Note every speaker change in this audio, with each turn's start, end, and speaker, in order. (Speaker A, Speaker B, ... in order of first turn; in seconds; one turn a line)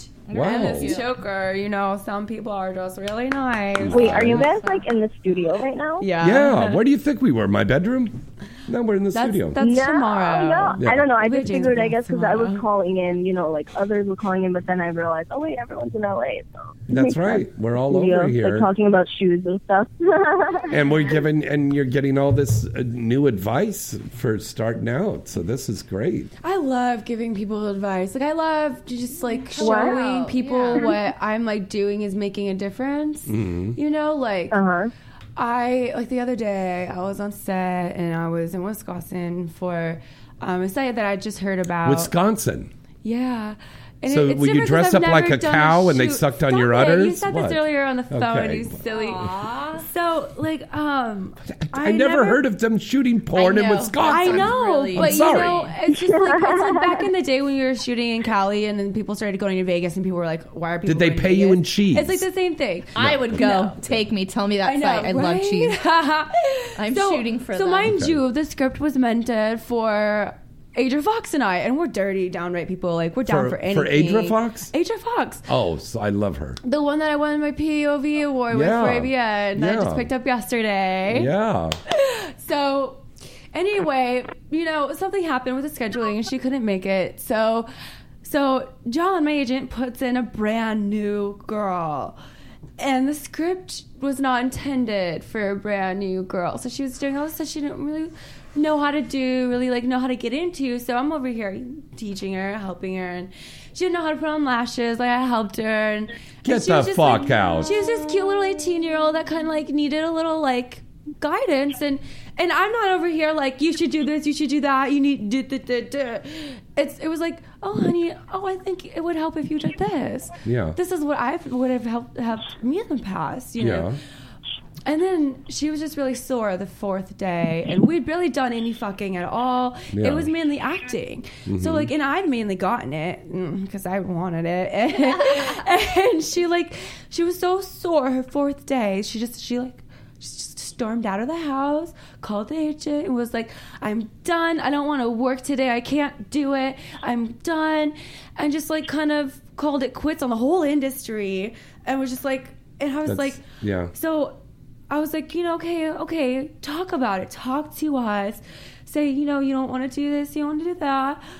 Speaker A: 0.3-1.1
Speaker B: 0.3-1.0
Speaker C: 0.3-4.5
Speaker B: 3.8-4.4
Speaker D: 3.9-6.1
Speaker A: 4.3-4.9
Speaker C: 6.0-6.8
Speaker B: 6.2-9.6
Speaker C: 9.1-12.7
Speaker D: 9.6-20.7
Speaker B: 10.8-11.0
Speaker B: 16.9-18.7
Speaker B: 20.7-26.3
Speaker C: 26.4-34.6
Speaker A: 29.6-30.9
Speaker D: 29.6-30.0
Speaker B: 33.3-33.8
Speaker D: 34.5-34.9
Speaker C: 35.4-42.1
Speaker B: 41.8-42.7
Speaker C: 43.0-52.4
Speaker B: 44.1-48.8
Speaker A: 48.9-49.9
Speaker B: 51.5-55.6
Speaker A: 53.3-55.7
Speaker C: 54.0-63.8
Speaker D: 55.9-57.0
Speaker B: 60.9-62.2
Speaker A: 62.9-65.8
Speaker B: 63.0-64.0
Speaker C: 64.6-75.5
Speaker A: 66.8-67.9
Speaker B: 67.8-68.2
Speaker B: 73.2-74.7
Speaker B: 75.5-76.6
Speaker C: 76.6-81.3
Speaker B: 78.5-80.1
Speaker B: 81.1-81.8
Speaker C: 81.9-87.7
Speaker C: 88.2-92.2
Speaker C: 92.8-123.9
Speaker B: 106.4-107.7
Speaker B: 120.4-120.8
Speaker B: 123.6-124.0
Speaker C: 124.8-153.4
Speaker B: 129.9-130.3
Speaker B: 131.5-131.9
Speaker A: 135.1-135.7
Speaker B: 153.1-153.9
Speaker C: 153.9-154.4
Speaker C: 154.9-161.2